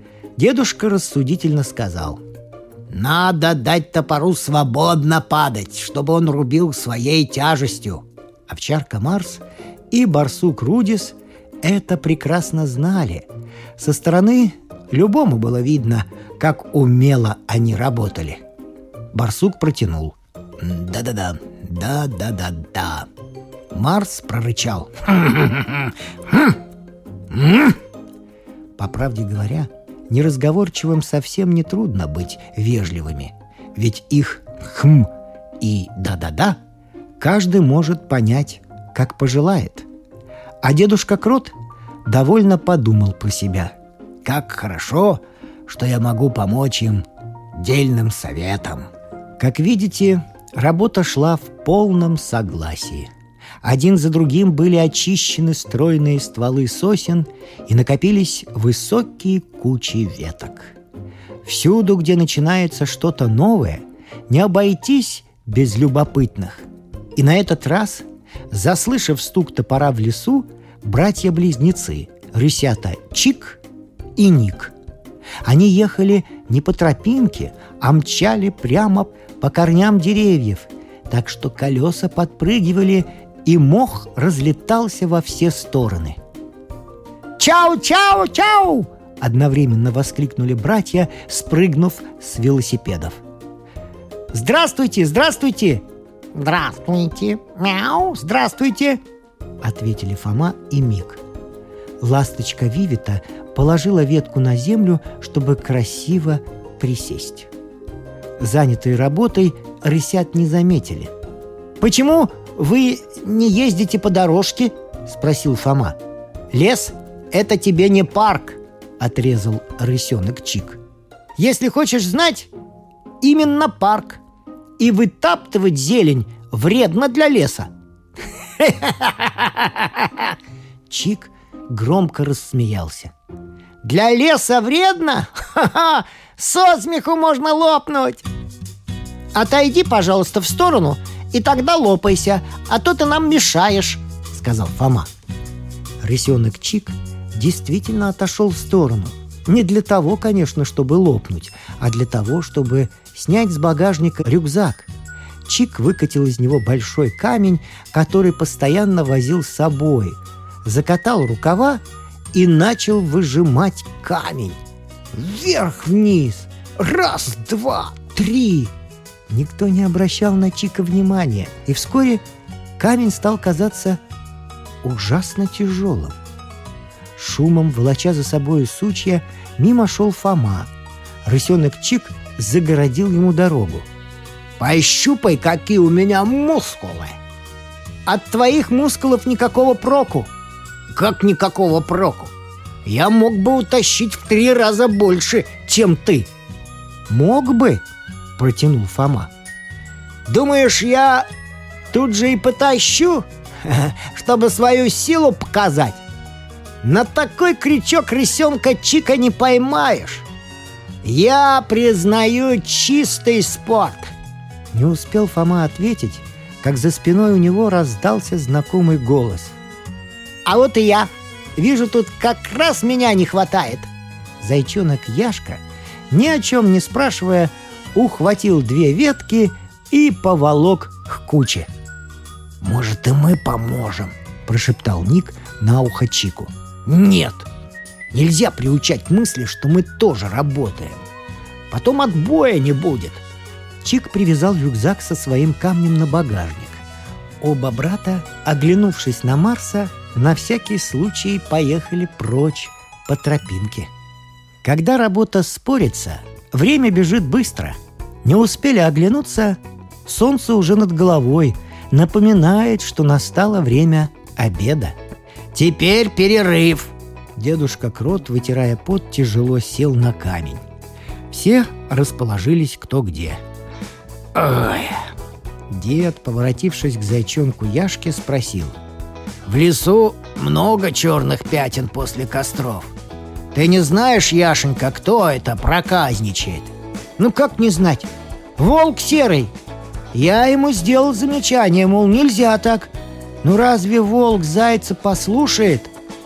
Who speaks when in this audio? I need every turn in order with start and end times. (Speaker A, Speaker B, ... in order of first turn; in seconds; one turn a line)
Speaker A: 0.4-2.2
Speaker A: 2.9-18.4
Speaker A: 19.1-23.1
Speaker A: 23.7-26.6
Speaker A: 27.3-27.8
Speaker A: 28.8-35.1
Speaker A: 35.6-36.6
Speaker A: 37.2-39.9
Speaker A: 40.6-47.1
Speaker A: 47.6-53.1
Speaker A: 53.6-60.8
Speaker A: 61.4-73.6
Speaker A: 74.2-74.7
Speaker A: 75.4-86.2
Speaker A: 87.4-93.2
Speaker A: 94.3-95.8
Speaker A: 96.3-99.0
Speaker A: 99.6-101.2
Speaker A: 102.0-107.5
Speaker A: 108.4-111.1
Speaker A: 111.8-116.0
Speaker A: 116.5-120.8
Speaker A: 121.4-122.5
Speaker A: 123.2-124.2
Speaker A: 124.8-127.7
Speaker A: 128.6-130.3
Speaker A: 130.9-133.1
Speaker A: 133.8-138.3
Speaker A: 139.3-145.1
Speaker A: 146.0-154.9
Speaker A: 155.5-161.8
Speaker A: 162.3-164.6
Speaker A: 165.1-168.7
Speaker A: 169.3-172.2
Speaker A: 172.8-174.0
Speaker A: 174.8-176.2
Speaker A: 177.2-180.7
Speaker A: 181.2-183.9
Speaker A: 184.6-187.2
Speaker A: 188.1-190.3
Speaker A: 190.9-192.3
Speaker A: 192.8-196.3
Speaker A: 197.1-197.8
Speaker A: 198.4-199.3
Speaker A: 200.3-201.3
Speaker A: 201.9-206.0
Speaker A: 206.8-210.3
Speaker A: 211.0-214.1
Speaker A: 214.7-219.6
Speaker A: 220.4-231.7
Speaker A: 232.6-237.5
Speaker A: 238.1-241.0
Speaker A: 241.7-243.2
Speaker A: 243.8-246.8
Speaker A: 247.4-253.9
Speaker A: 254.6-265.0
Speaker A: 265.5-270.6
Speaker A: 271.3-273.4
Speaker A: 274.4-275.1
Speaker A: 275.7-278.8
Speaker A: 279.5-282.9
Speaker A: 283.5-289.5
Speaker A: 290.1-292.9
Speaker A: 293.4-295.9